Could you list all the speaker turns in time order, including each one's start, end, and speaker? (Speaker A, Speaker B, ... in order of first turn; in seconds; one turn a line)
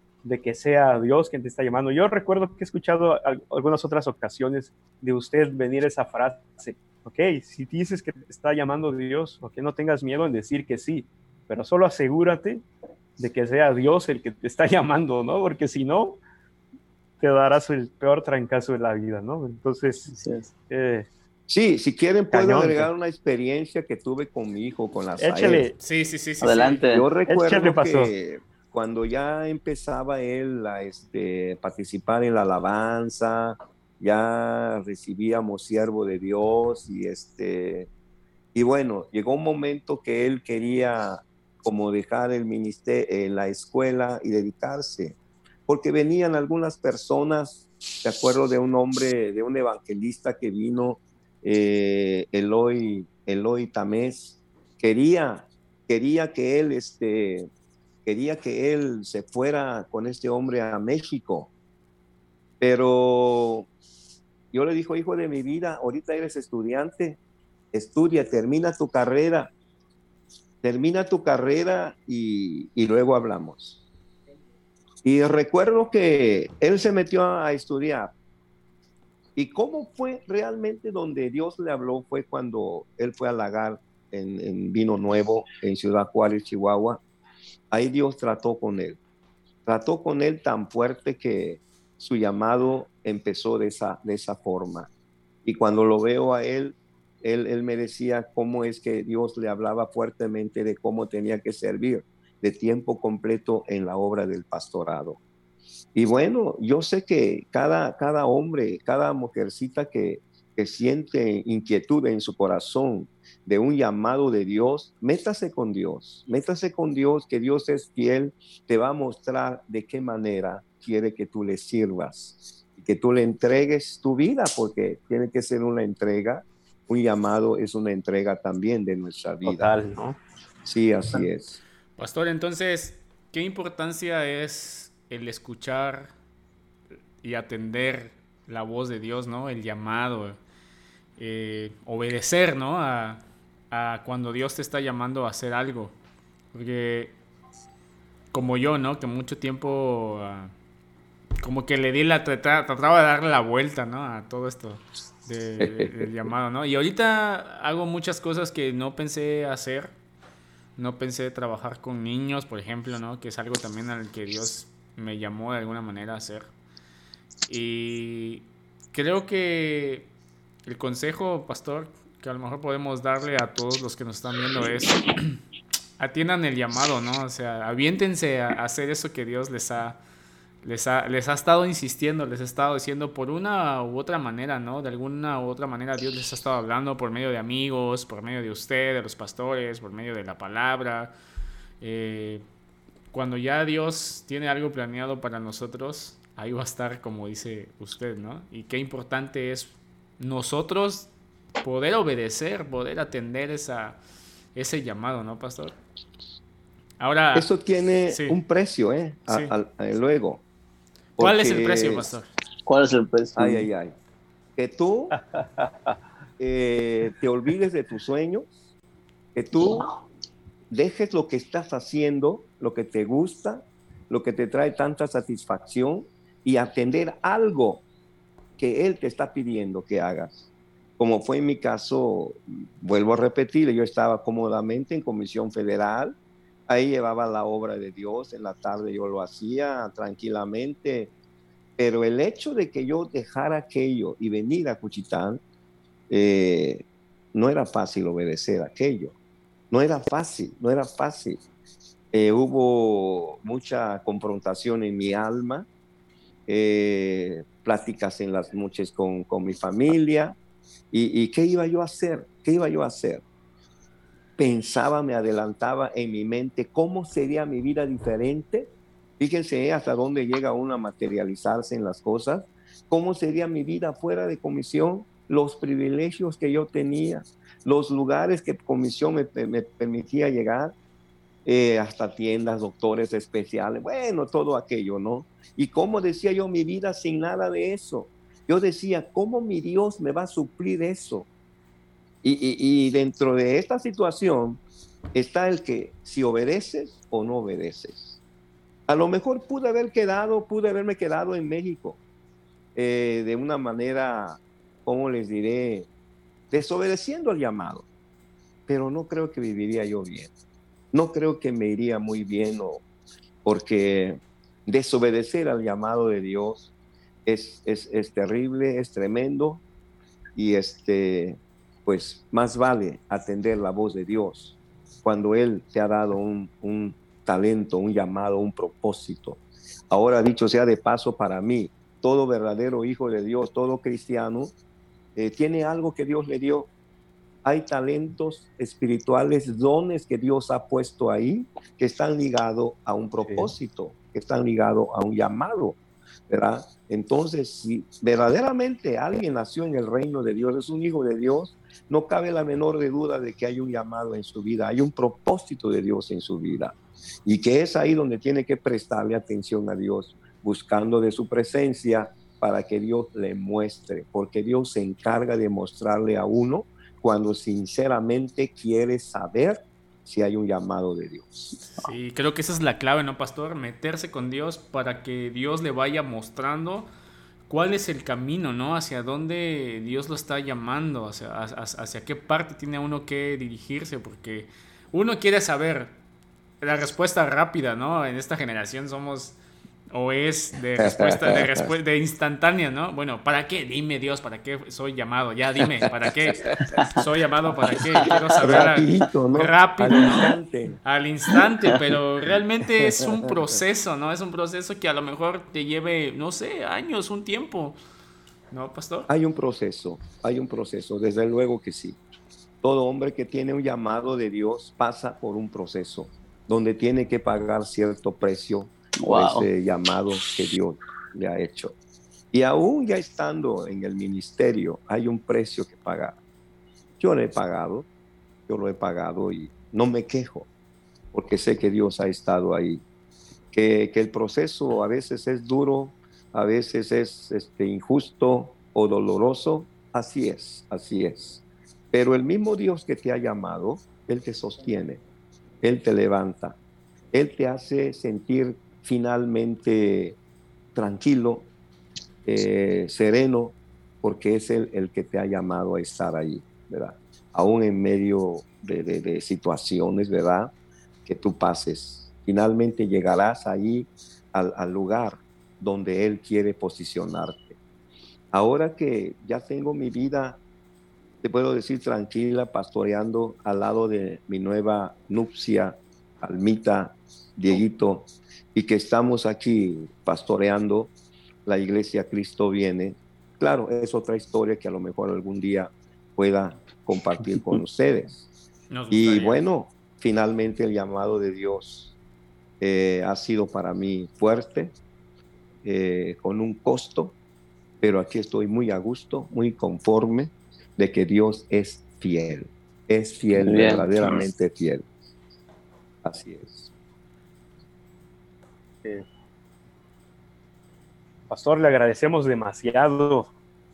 Speaker A: 0.2-12.6
Speaker A: 13.2-16.2
Speaker A: 17.2-20.1
Speaker B: 20.1-20.5
Speaker A: 20.7-21.1
Speaker C: 21.5-25.7
Speaker A: 22.3-22.9
Speaker A: 25.2-25.7
Speaker D: 25.8-26.8
Speaker B: 26.4-27.1
Speaker C: 26.9-37.9
Speaker A: 27.3-28.1
Speaker C: 38.5-57.5
Speaker C: 58.0-61.5
Speaker C: 62.6-63.7
Speaker C: 64.5-67.2
Speaker C: 67.7-69.5
Speaker C: 70.6-73.8
Speaker C: 75.0-78.1
Speaker C: 79.3-87.0
Speaker C: 87.7-89.0
Speaker C: 89.7-94.9
Speaker C: 95.4-105.2
Speaker C: 105.9-129.7
Speaker A: 129.4-130.2
Speaker C: 130.6-131.6
Speaker D: 132.0-136.1
Speaker D: 137.2-140.4
Speaker D: 141.2-145.9
Speaker D: 146.5-147.1
Speaker D: 148.3-150.5
Speaker D: 151.4-159.9
Speaker C: 155.6-155.9
Speaker D: 160.8-166.5
Speaker D: 167.5-170.1
Speaker D: 170.7-175.4
Speaker D: 176.0-180.0
Speaker D: 180.6-191.1
Speaker D: 191.8-192.4
Speaker D: 193.1-201.1
Speaker D: 201.6-204.0
Speaker D: 204.5-205.7
Speaker D: 207.0-207.5
Speaker C: 207.3-210.4
Speaker D: 208.1-208.4
Speaker D: 209.3-209.5
Speaker C: 211.2-212.1
Speaker D: 211.2-212.3
Speaker B: 212.7-213.7
Speaker C: 213.3-213.9
Speaker C: 214.6-215.2
Speaker A: 215.1-215.9
Speaker C: 216.4-218.5
Speaker C: 219.3-219.9
Speaker B: 219.6-220.0
Speaker C: 220.7-227.8
Speaker C: 228.6-236.2
Speaker C: 236.7-241.1
Speaker C: 241.8-245.4
Speaker C: 246.1-249.1
Speaker C: 249.7-251.4
Speaker C: 252.1-255.7
Speaker C: 256.5-260.4
Speaker C: 260.9-263.2
Speaker C: 264.4-280.7
Speaker C: 281.4-291.3
Speaker C: 292.2-294.6
Speaker C: 295.1-298.2
Speaker C: 298.9-302.0
Speaker C: 302.7-305.9
Speaker C: 306.5-307.9
Speaker C: 308.7-310.3
Speaker C: 310.9-312.8
Speaker C: 313.4-316.7
Speaker C: 317.2-319.6
Speaker C: 320.3-329.4
Speaker C: 329.9-334.5
Speaker C: 335.1-336.7
Speaker C: 337.4-356.7
Speaker A: 343.2-343.5
Speaker C: 357.2-371.6
Speaker D: 371.8-376.9
Speaker D: 377.5-385.9
Speaker D: 386.6-389.4
Speaker D: 389.9-407.8
Speaker C: 390.8-391.7
Speaker C: 396.4-396.8
Speaker C: 398.4-400.8
Speaker C: 402.9-403.2
Speaker D: 408.5-409.1
Speaker C: 409.1-412.0
Speaker C: 412.6-421.8
Speaker B: 419.0-419.5
Speaker C: 422.3-426.2
Speaker C: 427.0-427.9
Speaker C: 428.5-430.5
Speaker C: 431.1-432.8
Speaker C: 433.5-445.0
Speaker C: 445.6-446.6
Speaker C: 447.1-450.2
Speaker C: 450.7-451.5
Speaker C: 452.2-460.5
Speaker C: 461.0-467.6
Speaker C: 468.3-470.4
Speaker C: 471.2-480.9
Speaker C: 481.4-488.3
Speaker D: 488.7-489.4
Speaker C: 488.9-491.9
Speaker C: 492.6-494.8
Speaker C: 495.6-497.1
Speaker C: 497.8-504.9
Speaker B: 503.4-504.2
Speaker C: 506.0-506.7
Speaker A: 511.3-513.3